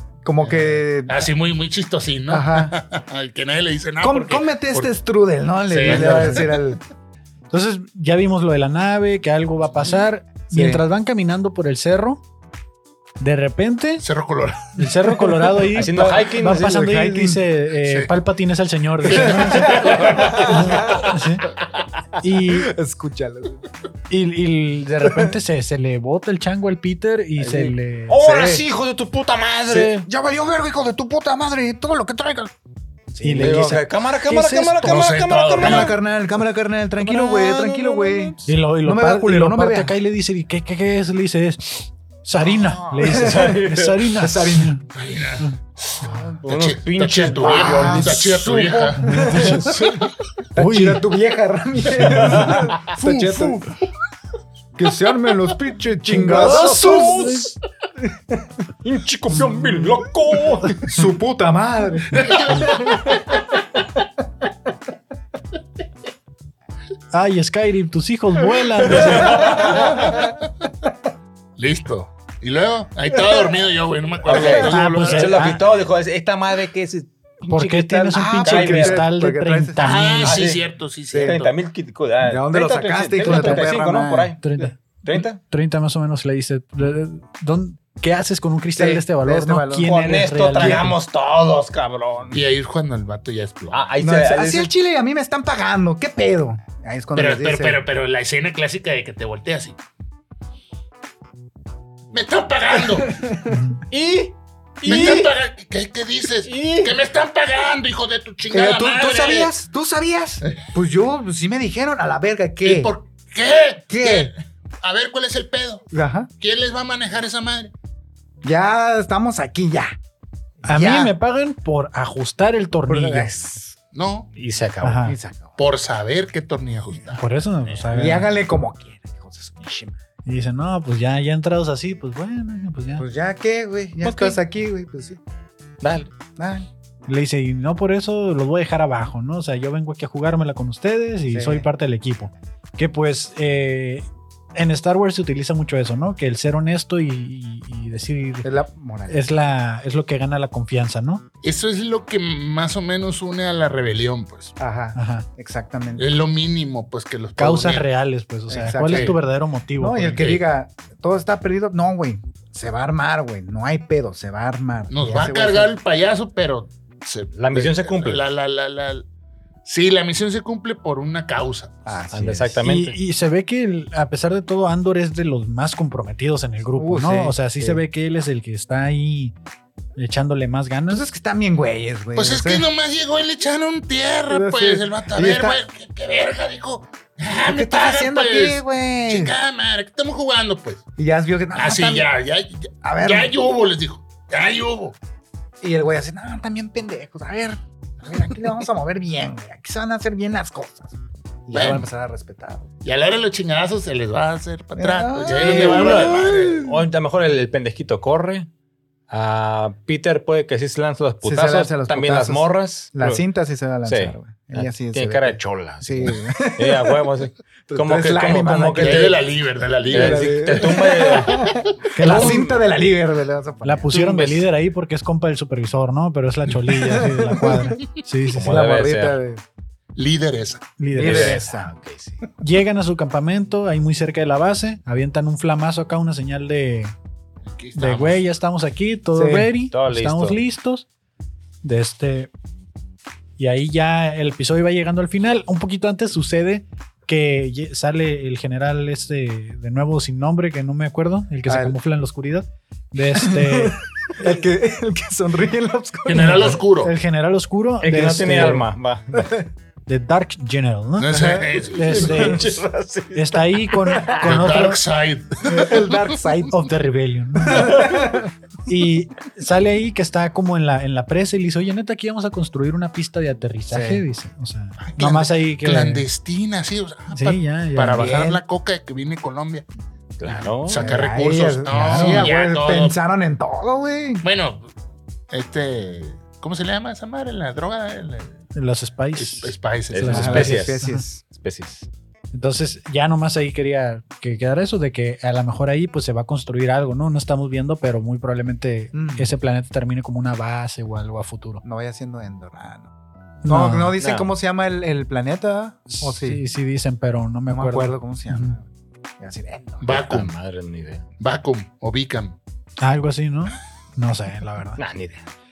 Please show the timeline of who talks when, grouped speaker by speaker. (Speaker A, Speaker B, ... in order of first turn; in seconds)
Speaker A: 0.2-1.3, 2.3-2.7, 4.0-6.8, 10.5-10.8, 15.9-17.4, 19.1-21.1, 22.4-23.6, 25.0-25.3, 28.2-28.6, 29.8-32.5, 33.1-33.7, 35.6-39.9, 43.0-43.6, 44.2-44.8, 46.0-46.4, 47.3-50.0, 50.5-53.7, 54.8-57.2, 60.8-63.1, 69.0-70.1, 74.3-74.9, 78.1-80.2, 81.1-81.4, 82.2-84.3, 88.8-90.0, 94.0-97.8, 108.5-112.9, 113.9-114.3, 115.9-116.3, 118.4-119.9, 120.6-121.1, 122.9-123.7, 125.0-125.6, 127.9-130.0, 133.0-135.2, 136.4-136.7, 141.3-141.7, 148.4-149.2, 154.6-156.1, 158.5-159.2, 159.8-165.8, 171.9-172.6, 176.8-177.8, 180.9-182.7, 184.3-185.6, 187.3-189.3, 191.0-192.1, 192.8-193.3, 195.6-202.7, 204.8-206.8, 211.2-217.1, 217.7-219.2, 219.9-224.0, 226.7-227.8, 228.4-229.4, 230.9-231.7, 239.1-239.5, 251.5-251.8, 253.1-256.6, 259.1-259.5, 261.1-262.4, 265.4-266.6, 267.4-268.3, 273.7-274.0, 280.7-284.2, 290.1-291.1, 298.9-299.3, 301.6-302.9, 303.4-306.4, 307.5-308.6, 309.2-310.0
Speaker B: 0.4-4.9, 5.7-6.8, 14.0-14.9, 17.8-18.1, 19.1-21.2, 34.8-36.0, 44.9-50.1, 52.5-53.7, 62.3-62.6, 69.5-70.3, 71.6-75.5, 79.8-81.5, 92.3-93.9, 97.1-99.8, 102.1-103.3, 104.8-109.5, 112.6-115.9, 116.4-117.7, 123.9-124.3, 125.6-127.3, 151.4-154.6, 155.9-157.9, 158.9-159.2, 160.1-160.4, 164.9-169.1, 169.6-171.8, 182.2-190.8, 191.6-194.9, 201.5-201.9, 202.8-206.6, 218.8-220.9, 229.9-230.7, 237.4-238.2, 256.1-256.9, 261.0-262.3, 264.2-266.2, 274.8-279.7, 280.6-282.9, 284.2-284.7, 285.3-288.4, 289.2-290.6, 309.8-310.3, 311.2-312.4
Speaker C: 5.9-6.4, 7.5-12.2, 13.2-14.1, 14.8-21.4, 22.2-22.7, 24.1-28.2, 29.7-30.1, 33.2-35.0, 38.5-44.8, 49.0-49.9, 50.6-51.1, 52.1-52.5, 56.1-57.5, 67.1-69.5, 74.4-75.6, 77.5-80.4, 83.3-83.6, 84.4-91.0, 103.5-103.8, 120.7-123.3, 124.8-125.2, 127.1-128.3, 130.3-133.1, 137.1-148.5, 149.1-151.2, 154.9-155.3, 157.4-160.2, 172.6-179.4, 180.0-181.1, 221.9-222.4, 223.6-228.6, 230.8-231.4, 232.4-236.9, 237.7-240.9, 241.6-242.3, 243.4-253.8, 256.2-258.7, 259.9-262.6, 263.1-264.8, 266.4-268.0, 268.7-276.1, 277.1-278.4, 281.7-282.3, 288.6-291.0, 292.3-301.6, 303.4-303.9, 305.9-308.6, 312.8-314.8
Speaker D: 15.7-16.9, 27.4-30.0, 33.4-36.0, 37.0-38.5, 42.4-44.1, 46.1-48.5, 52.0-52.7, 56.3-57.6, 58.8-60.9, 68.9-70.0, 74.2-79.1, 80.3-80.6, 81.2-85.4, 89.8-92.5, 93.7-94.7, 103.9-105.3, 106.4-107.0, 124.4-125.1, 134.0-134.4, 135.8-136.1, 167.3-168.2, 172.1-172.9, 205.3-208.5, 209.1-213.2, 213.8-219.2, 219.9-222.6, 223.9-224.4, 228.3-229.2, 231.0-232.1, 239.7-240.4, 257.8-259.1, 261.8-264.2, 280.2-280.9, 289.9-291.9, 304.0-304.3, 309.9-311.0, 314.8-315.3